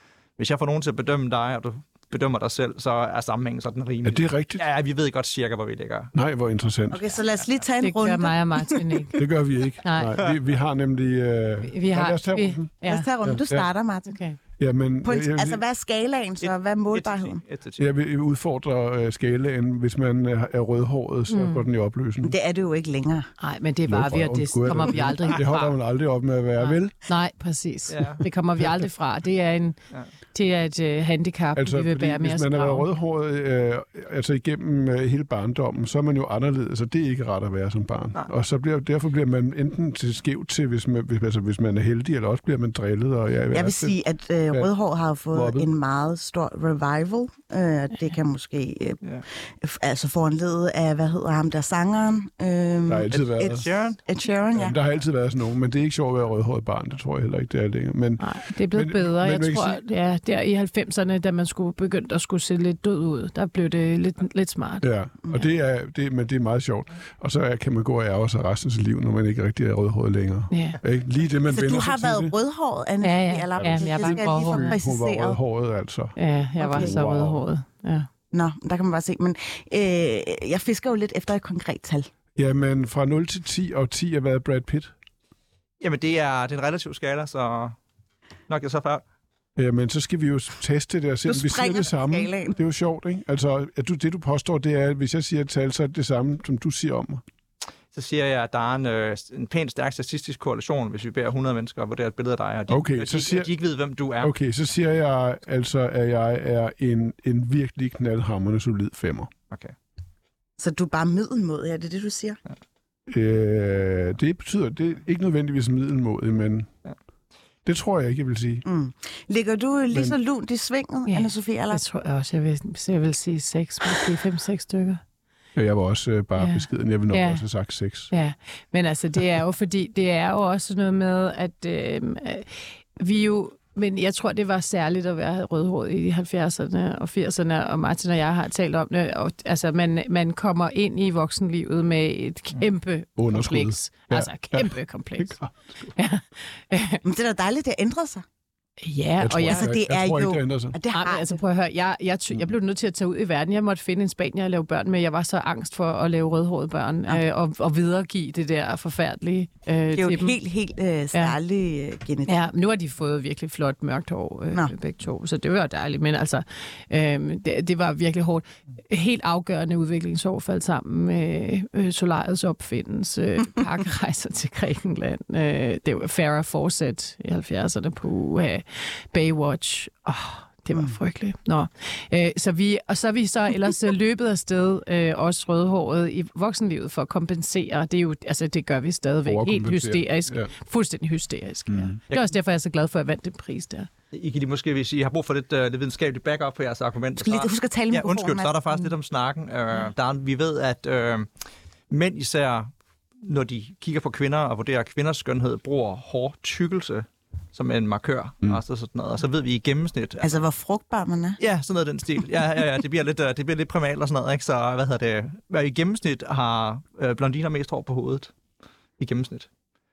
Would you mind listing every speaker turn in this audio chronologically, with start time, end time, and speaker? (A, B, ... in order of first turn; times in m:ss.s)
0:00.4-0:06.1 A
0:04.0-0:04.6 B
0:06.1-0:07.0 B
0:06.9-0:08.8 C
0:07.8-0:09.2 D
0:09.2-0:12.7 B
0:09.8-0:10.2 D
0:11.6-0:13.1 D
0:12.8-0:14.2 C
0:13.2-0:13.7 B
0:14.1-0:14.4 D
0:14.6-0:15.6 B
0:15.0-0:17.4 C
0:16.4-0:17.8 A
0:17.8-0:22.3 B
0:21.3-0:21.7 D
0:22.2-0:23.3 C
0:23.4-0:25.8 D
0:23.9-0:27.0 B
0:26.6-0:29.8 D
0:27.9-0:28.2 A
0:30.3-0:32.9 D
0:31.6-0:43.9 B
0:43.5-0:54.8 C
0:45.3-0:45.7 B
0:52.9-0:53.6 B
0:53.1-0:54.0 A
0:54.5-0:59.8 B
0:58.2-1:04.8 D
1:04.8-1:12.3 B
1:10.5-1:10.8 D
1:11.5-1:15.4 C
1:13.0-1:14.8 D
1:13.6-1:17.4 B
1:16.2-1:18.1 D
1:16.6-1:17.0 C
1:18.3-1:22.1 C
1:22.4-1:24.9 B
1:25.8-1:27.8 A
1:28.5-1:29.0 A
1:29.6-1:37.2 B
1:31.2-1:32.6 C
1:37.9-1:44.3 A
1:42.7-1:43.5 B
1:44.2-1:49.3 B
1:49.5-1:49.7 A
1:50.6-1:52.4 C
1:53.1-1:56.7 B
1:57.6-1:58.6 B
1:58.6-2:01.8 C
1:59.9-2:00.2 B
2:01.1-2:05.0 D
2:05.5-2:08.1 B
2:06.4-2:07.4 D
2:08.1-2:25.4 D
2:23.2-2:25.8 B
2:25.9-2:27.0 D
2:27.0-2:28.2 C
2:28.8-2:29.7 D
2:29.2-2:30.8 B
2:29.4-2:31.4 C
2:30.9-2:40.4 D
2:39.9-2:42.4 C
2:42.2-3:13.9 D
3:09.2-3:10.5 B
3:11.7-3:12.0 B
3:14.1-3:30.4 A
3:17.2-3:18.6 C
3:30.2-3:31.4 C
3:31.4-3:38.3 A
3:39.0-3:39.5 A